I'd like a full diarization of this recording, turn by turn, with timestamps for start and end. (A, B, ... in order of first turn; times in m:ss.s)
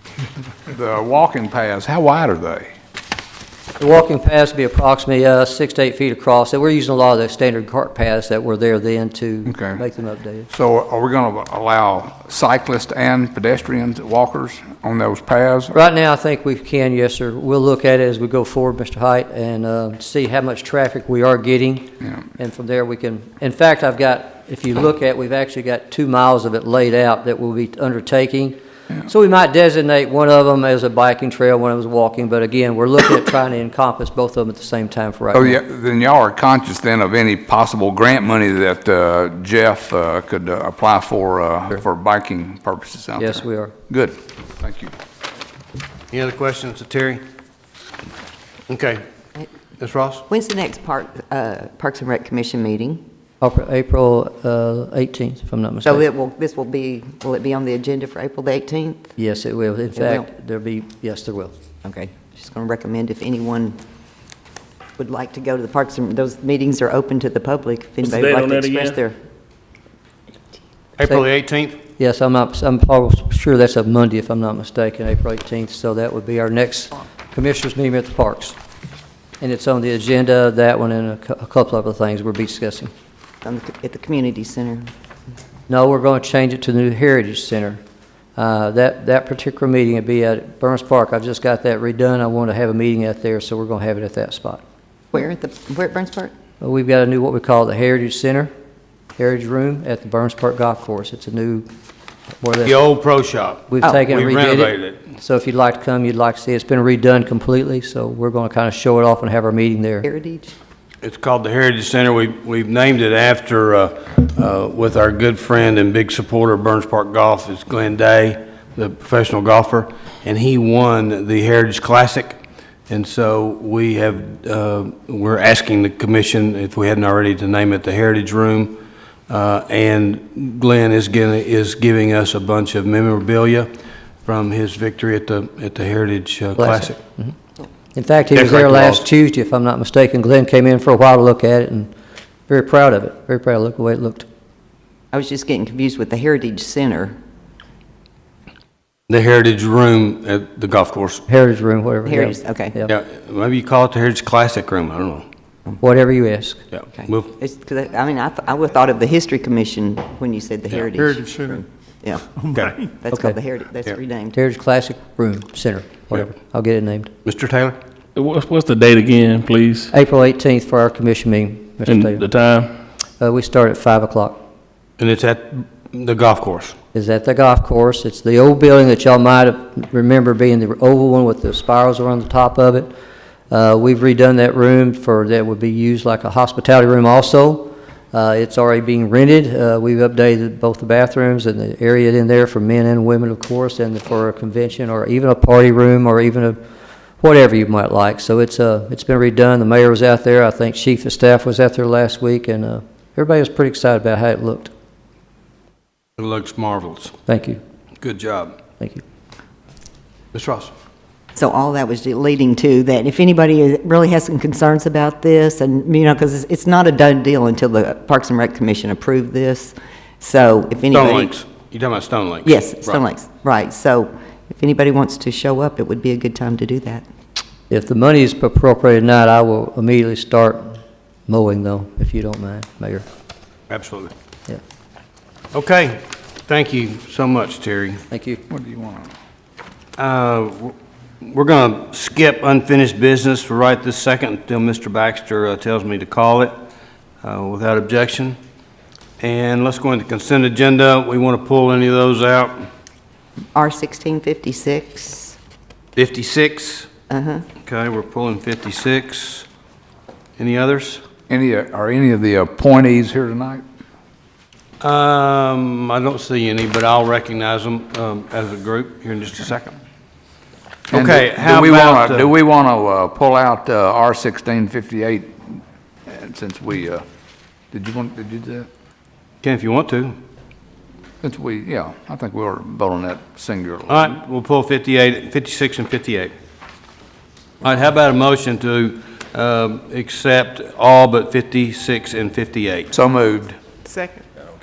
0:00.7-0:02.7 A
0:03.8-0:10.5 B
0:09.5-0:09.8 A
0:10.5-0:15.8 A
0:15.7-0:35.6 B
0:35.3-0:44.9 A
0:43.2-0:43.7 B
0:46.1-0:47.2 C
0:48.7-0:49.0 C
0:49.8-0:50.2 C
0:50.3-0:53.0 D
0:53.4-0:56.0 B
0:55.8-0:59.2 D
0:59.2-1:01.5 B
1:00.0-1:00.3 D
1:01.8-1:03.8 D
1:05.0-1:09.2 D
1:08.0-1:09.0 E
1:11.0-1:11.8 C
1:12.0-1:18.6 B
1:19.4-1:22.9 B
1:23.4-1:24.9 D
1:25.7-1:27.8 B
1:28.4-1:34.6 B
1:35.1-1:36.3 D
1:36.6-1:38.5 B
1:39.2-1:41.7 B
1:42.4-1:42.8 B
1:42.6-1:45.1 C
1:43.7-1:50.0 B
1:50.0-1:50.5 D
1:51.0-2:08.8 C
2:09.3-2:13.7 C
2:14.2-2:17.0 C
2:16.6-2:17.3 B
2:17.9-2:21.9 B
2:18.3-2:19.0 C
2:22.5-2:24.3 B
2:25.1-2:27.2 D
2:29.1-2:31.2 C
2:31.3-2:32.9 B
2:32.1-2:32.8 D
2:32.8-2:35.2 C
2:35.8-2:36.6 B
2:36.7-2:37.3 C
2:37.0-2:42.3 D
2:42.9-2:44.4 D
2:44.4-2:47.1 B
2:47.2-2:47.8 C
2:48.2-2:49.9 E
2:49.9-2:52.2 B
2:51.8-2:52.7 E
2:53.2-2:54.4 B
2:55.0-2:56.8 C
2:56.9-3:02.9 B
3:03.5-3:16.6 B
3:17.2-3:24.7 B
3:26.2-3:27.2 C
3:27.3-3:27.6 B
3:28.0-3:28.6 C
3:30.3-3:30.7 C
3:31.4-3:41.3 D
3:40.9-3:43.0 C
3:42.4-3:47.0 D
3:47.7-3:53.1 B
3:53.7-3:54.1 C
3:55.5-3:58.0 C
3:58.1-3:58.4 B
3:58.5-3:59.1 A
4:00.0-4:06.5 C
4:07.2-4:08.4 C
4:09.2-4:12.7 C
4:13.6-4:15.4 D
4:16.0-4:16.9 C
4:17.1-4:17.5 D
4:17.6-4:19.5 C
4:20.4-4:21.0 C
4:21.3-4:23.6 A
4:24.8-4:29.8 C
4:30.9-4:32.3 C
4:30.9-4:37.0 A
4:37.7-4:38.7 A
4:39.4-4:40.2 C
4:41.2-4:44.1 A
4:43.9-4:46.3 C
4:47.6-4:52.9 C
4:52.9-4:53.6 A